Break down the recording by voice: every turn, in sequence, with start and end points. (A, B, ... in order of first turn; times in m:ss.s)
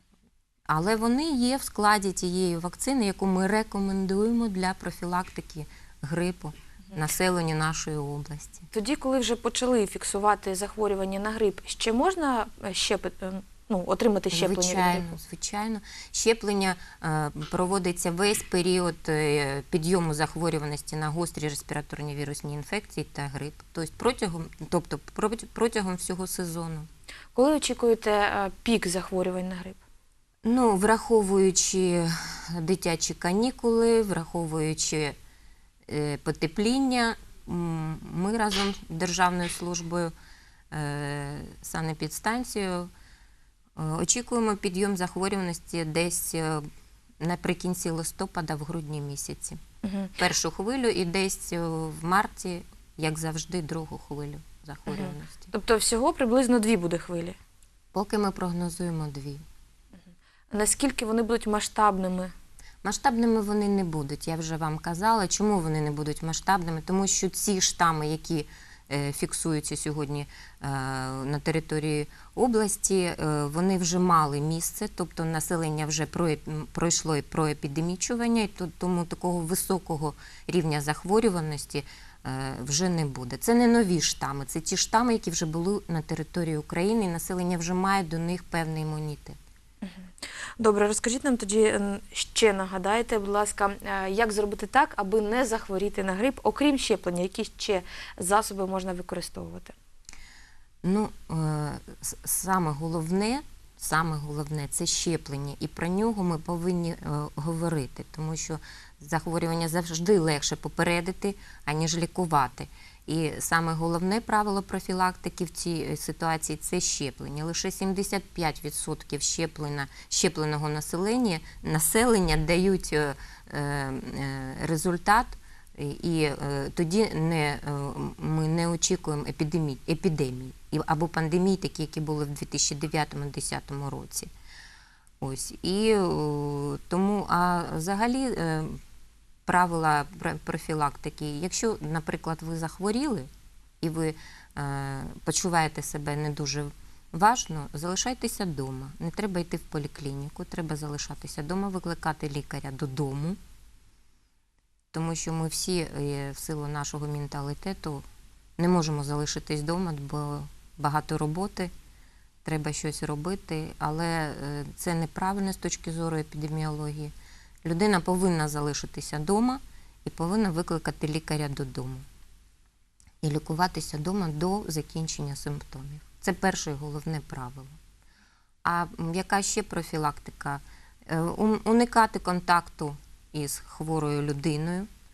0:00.7-0:08.7 A
0:08.7-0:15.2 B
0:14.3-0:26.9 A
0:27.4-0:29.8 B
0:30.4-0:35.2 A
0:35.9-0:40.1 A
0:40.7-0:42.9 A
0:43.8-0:46.6 A
0:47.2-0:49.6 A
0:49.8-0:50.2 B
0:50.2-0:55.5 A
0:54.9-0:57.4 B
0:57.9-0:59.4 A
1:00.5-1:02.3 B
1:02.8-1:29.4 A
1:29.8-1:39.8 B
1:40.8-2:14.3 A
2:15.2-2:18.8 A
2:19.5-2:23.3 A
2:23.8-2:33.4 A
2:34.9-2:38.0 A
2:38.6-2:41.7 A
2:42.4-2:47.1 A
2:47.6-2:52.0 A
2:53.2-2:57.7 A
2:58.6-3:04.9 A